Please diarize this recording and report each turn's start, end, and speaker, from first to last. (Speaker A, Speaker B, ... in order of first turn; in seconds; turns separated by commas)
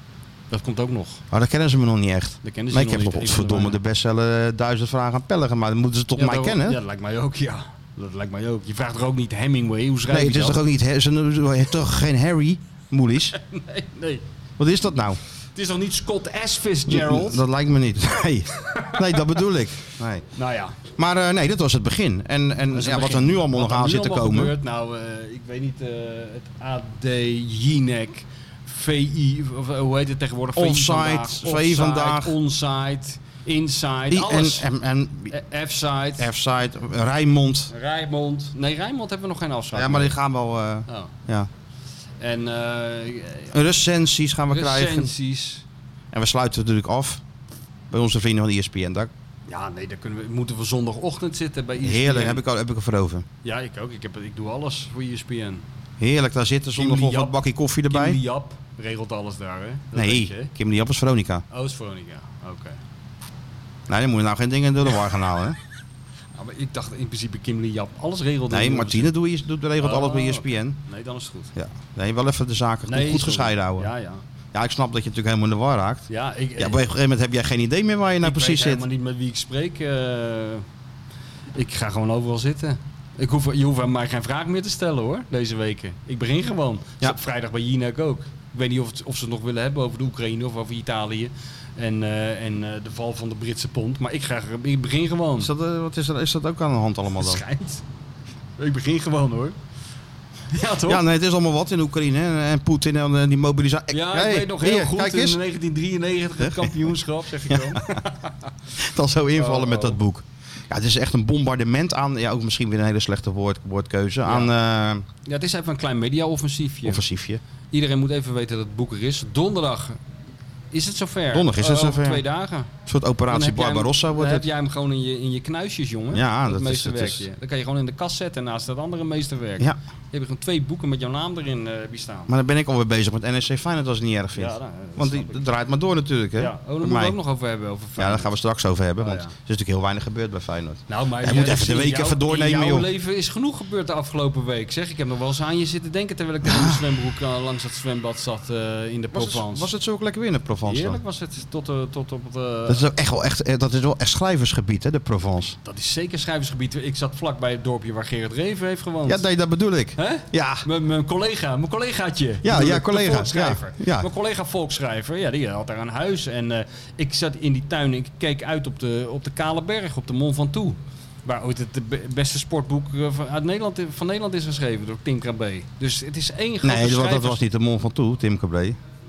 Speaker A: 0.5-1.2, Speaker B: 1.3-6.8, Speaker A: 2.4-3.8, Speaker A: 6.2-10.6, Speaker B: 10.1-13.3, Speaker A: 13.4-14.2, Speaker B: 14.6-15.2, Speaker A: 15.5-17.4, Speaker B: 16.9-20.2, Speaker A: 18.6-19.2, Speaker A: 20.3-20.8, Speaker B: 20.9-24.5, Speaker A: 22.7-34.7, Speaker B: 30.6-32.4, Speaker B: 34.1-35.3, Speaker A: 35.3-36.3, Speaker B: 36.2-37.7, Speaker A: 37.7-40.1, Speaker B: 39.7-41.5, Speaker A: 42.2-43.5, Speaker B: 43.5-45.1, Speaker A: 44.5-45.6, Speaker B: 46.1-47.2, Speaker B: 47.9-49.1, Speaker A: 49.5-52.4, Speaker B: 51.8-53.2, Speaker A: 53.4-55.6, Speaker B: 56.0-58.2, Speaker A: 56.8-57.4, Speaker A: 57.9-60.5, Speaker B: 59.9-61.4, Speaker A: 61.5-62.8, Speaker B: 63.9-65.6, Speaker A: 66.3-69.1, Speaker B: 68.5-70.8, Speaker A: 69.8-71.5, Speaker B: 71.5-73.9, Speaker A: 72.8-74.2, Speaker B: 74.5-78.8, Speaker A: 76.1-76.8, Speaker A: 78.2-80.6, Speaker A: 81.5-95.5, Speaker B: 95.4-97.4, Speaker A: 97.2-97.8, Speaker A: 98.6-99.5, Speaker A: 100.5-101.0, Speaker B: 100.8-105.4, Speaker A: 103.9-108.3, Speaker B: 106.4-106.9, Speaker B: 107.5-107.9, Speaker B: 108.8-115.0, Speaker A: 109.3-110.0, Speaker A: 114.2-114.5, Speaker A: 115.2-117.0, Speaker B: 116.8-117.4, Speaker A: 117.7-120.0, Speaker A: 120.7-122.7, Speaker B: 121.3-122.2, Speaker B: 122.8-124.5, Speaker A: 123.3-132.3, Speaker B: 126.1-127.2, Speaker B: 132.3-137.2, Speaker A: 134.3-135.4, Speaker A: 136.4-138.3, Speaker B: 138.0-142.9, Speaker A: 139.0-139.3, Speaker A: 140.9-149.7, Speaker B: 146.4-146.8, Speaker B: 149.1-151.0, Speaker A: 150.6-152.9, Speaker B: 152.7-155.6, Speaker A: 155.6-159.2, Speaker B: 159.1-160.7, Speaker A: 160.0-177.4, Speaker B: 162.4-164.1, Speaker B: 176.6-178.8